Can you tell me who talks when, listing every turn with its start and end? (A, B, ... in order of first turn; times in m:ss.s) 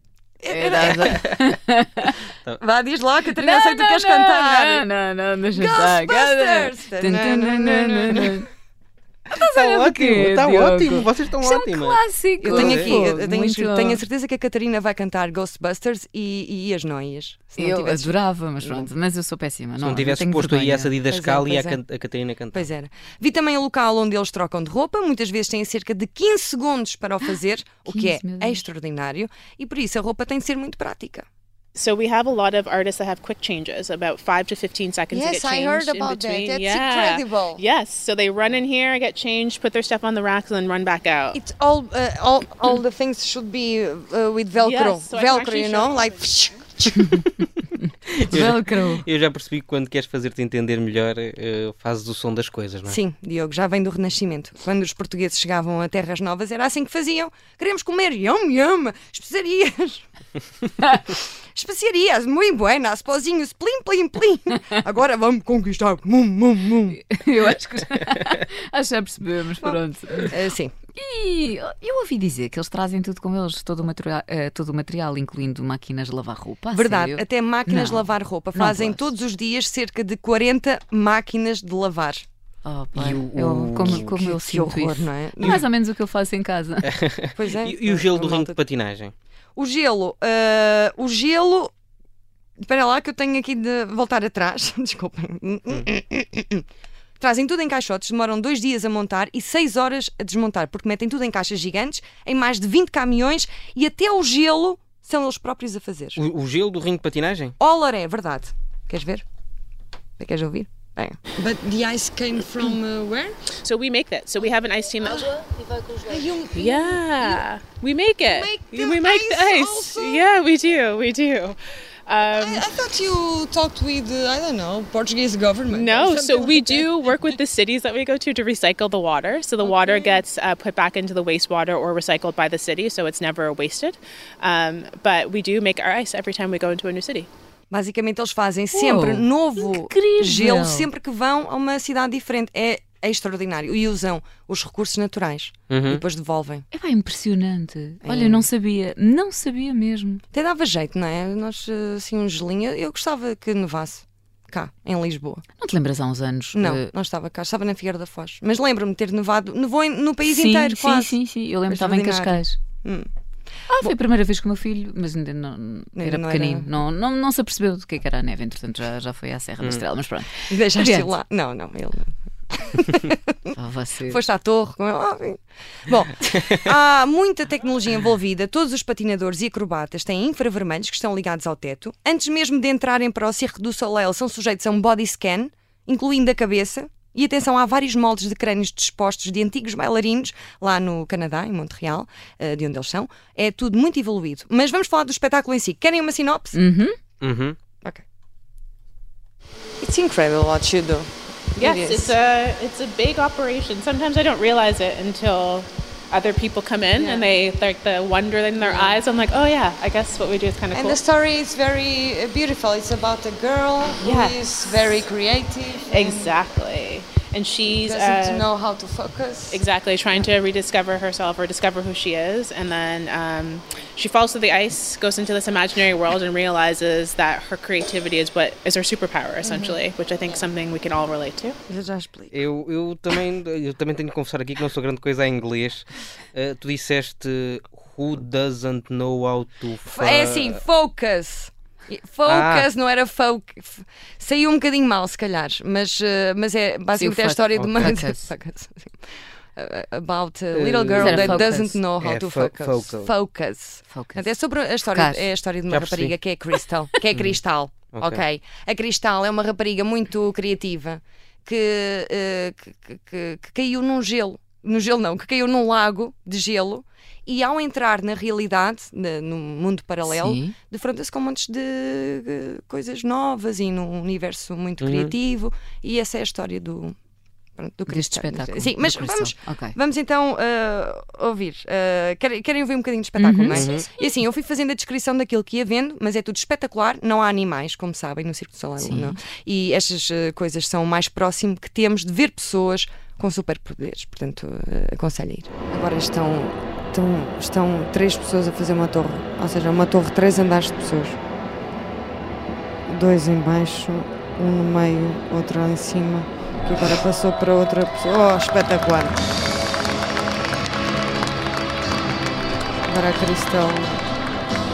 0:00.4-0:01.3 A
0:00.5-0:02.2 B
0:02.6-0:04.8 A
0:03.3-0:08.5 B
0:05.5-0:08.4 A
0:09.3-0:14.0 B
0:09.4-0:13.0 C
0:12.4-0:18.9 A
0:17.6-0:20.9 B
0:19.8-0:22.7 C
0:21.0-0:21.8 A
0:22.5-0:31.2 A
0:27.9-0:28.6 B
0:31.7-0:41.4 D
0:35.1-0:37.6 A
0:41.3-0:47.4 A
0:44.6-0:46.6 D
0:48.2-0:53.0 C
0:48.3-0:48.9 A
0:52.9-1:00.1 A
1:01.2-1:07.0 A
1:06.9-1:10.4 B
1:10.3-1:10.7 A
1:10.9-1:19.1 B
1:16.7-1:22.2 A
1:22.6-1:26.9 B
1:22.9-1:24.1 C
1:23.9-1:25.6 A
1:26.8-1:29.1 C
1:27.3-1:28.6 A
1:29.6-1:31.7 A
1:32.6-1:36.6 A
1:37.2-1:46.2 A
1:46.2-1:47.5 C
1:47.6-1:49.2 A
1:50.2-1:53.4 A
1:53.6-1:55.4 D
1:56.1-1:57.4 A
1:56.5-2:02.7 D
1:58.2-2:00.2 A
2:02.2-2:07.4 A
2:05.7-2:17.3 D
2:09.6-2:10.2 A
2:17.7-2:26.7 A
2:18.7-2:20.9 B
2:25.7-2:26.0 C
2:26.7-2:30.2 B
2:28.0-2:28.5 A
2:30.3-2:35.4 A
2:35.6-2:36.9 B
2:36.5-2:43.1 A
2:40.2-2:42.6 B
2:43.7-2:51.1 B
2:46.0-2:46.7 A
2:50.5-2:53.5 A
2:53.5-2:54.2 B
2:54.1-3:16.6 A
3:16.5-3:16.9 B
3:17.2-3:17.6 C
3:19.8-3:22.2 A
3:21.6-3:31.0 D
3:26.9-3:27.3 A
3:28.6-3:29.0 A
3:30.7-3:36.4 A
3:34.0-3:34.4 D
3:35.9-3:38.5 D
3:37.8-3:39.6 A
3:39.5-3:51.6 D
3:49.4-3:49.8 A
3:51.7-3:52.4 A
3:52.3-4:00.6 C
3:59.8-4:08.9 A
4:02.2-4:02.7 C
4:07.0-4:08.3 B
4:07.5-4:08.0 C
4:09.6-4:37.0 A
4:10.5-4:13.1 C
4:10.9-4:11.8 B
4:13.9-4:14.3 B
4:14.8-4:15.3 B
4:15.7-4:16.1 C
4:17.1-4:18.2 C
4:30.0-4:30.5 B
4:34.8-4:35.1 C
4:37.6-5:01.2 A
4:37.9-4:39.8 B
4:43.2-4:43.7 B
4:43.5-4:43.9 C
4:48.8-4:49.2 B
5:02.9-5:09.1 A
5:12.9-5:14.0 A